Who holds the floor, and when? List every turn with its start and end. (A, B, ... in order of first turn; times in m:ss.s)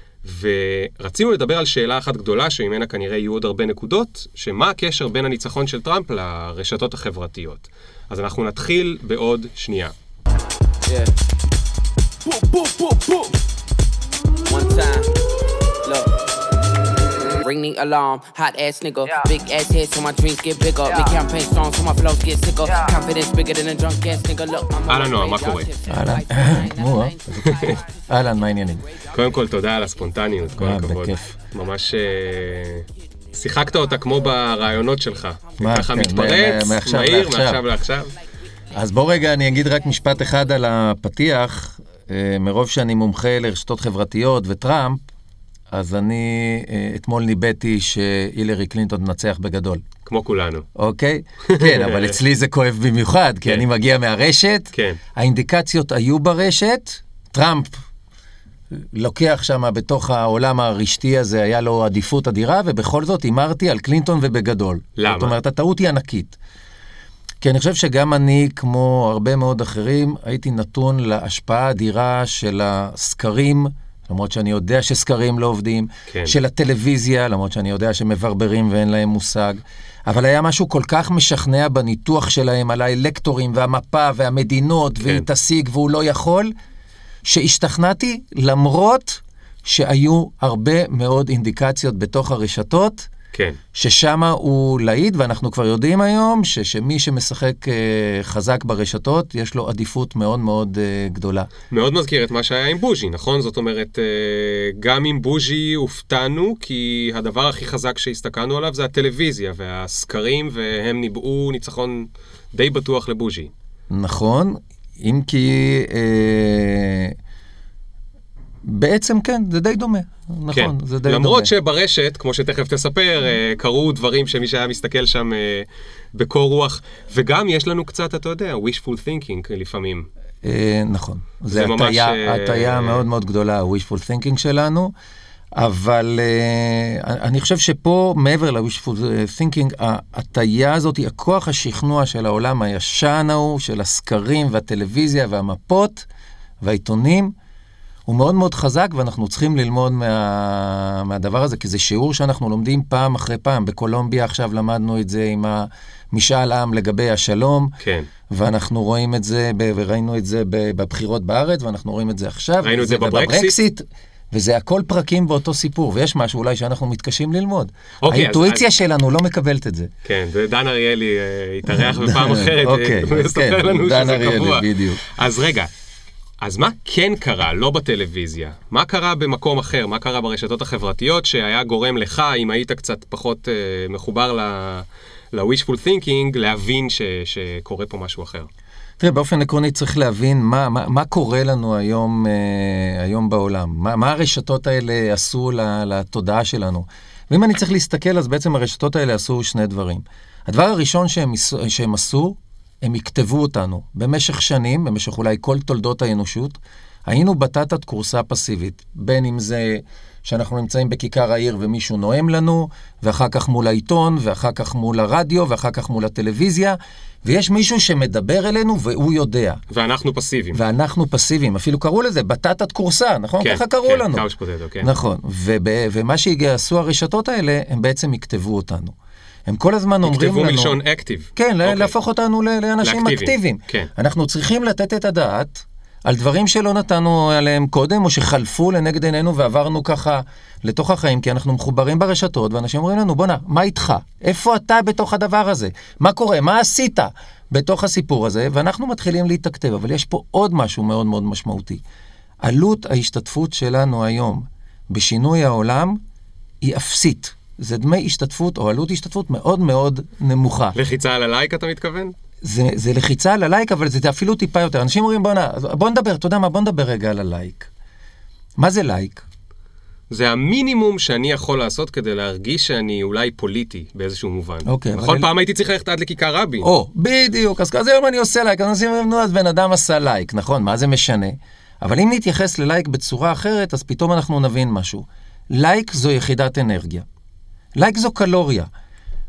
0:00.2-0:09.9 A
0:10.9-0:11.1 B
0:12.8-0:13.1 B
0:14.5-0:15.1 B
0:15.8-0:16.1 B
0:17.4-0:28.1 B
0:24.9-0:25.7 A
0:25.9-0:28.8 C
0:27.4-0:27.8 A
0:29.1-0:38.1 A
0:30.6-0:31.3 C
0:35.6-0:37.6 C
0:38.7-0:45.0 C
0:45.7-0:49.8 C
0:50.0-0:50.6 A
0:50.7-0:57.8 C
0:51.5-0:52.2 A
0:54.7-0:55.0 A
0:58.7-1:06.4 C
1:05.0-1:05.4 A
1:07.4-1:26.5 C
1:16.1-1:16.3 A
1:27.2-1:33.1 C
1:33.3-1:33.6 A
1:33.7-1:41.5 C
1:41.7-1:53.5 A
1:53.9-1:57.1 C
1:58.6-2:01.5 C
2:00.5-2:10.1 A
2:10.4-2:14.9 C
2:11.5-2:13.0 A
2:15.5-2:26.1 C
2:26.6-2:27.3 C
2:28.1-2:37.7 C
2:37.8-2:38.1 A
2:38.3-2:49.9 C
2:42.6-2:43.6 A
2:48.0-2:48.7 A
2:50.0-2:55.7 A
2:51.7-2:55.0 C
2:56.4-3:08.5 A
3:09.0-3:39.6 C
3:39.7-3:40.6 A
3:40.5-3:44.2 C
3:43.4-3:44.9 A
3:44.8-3:48.9 C
3:49.4-3:50.8 C
3:50.0-3:51.9 A
3:51.4-4:11.8 C
3:52.8-3:53.9 A
4:12.4-4:16.0 C
4:16.6-4:20.8 C
4:20.7-4:22.1 A
4:22.4-4:27.7 C
4:28.6-4:29.2 C
4:30.1-4:36.7 A
4:34.6-4:35.3 C
4:36.6-4:47.0 C
4:47.7-4:48.7 C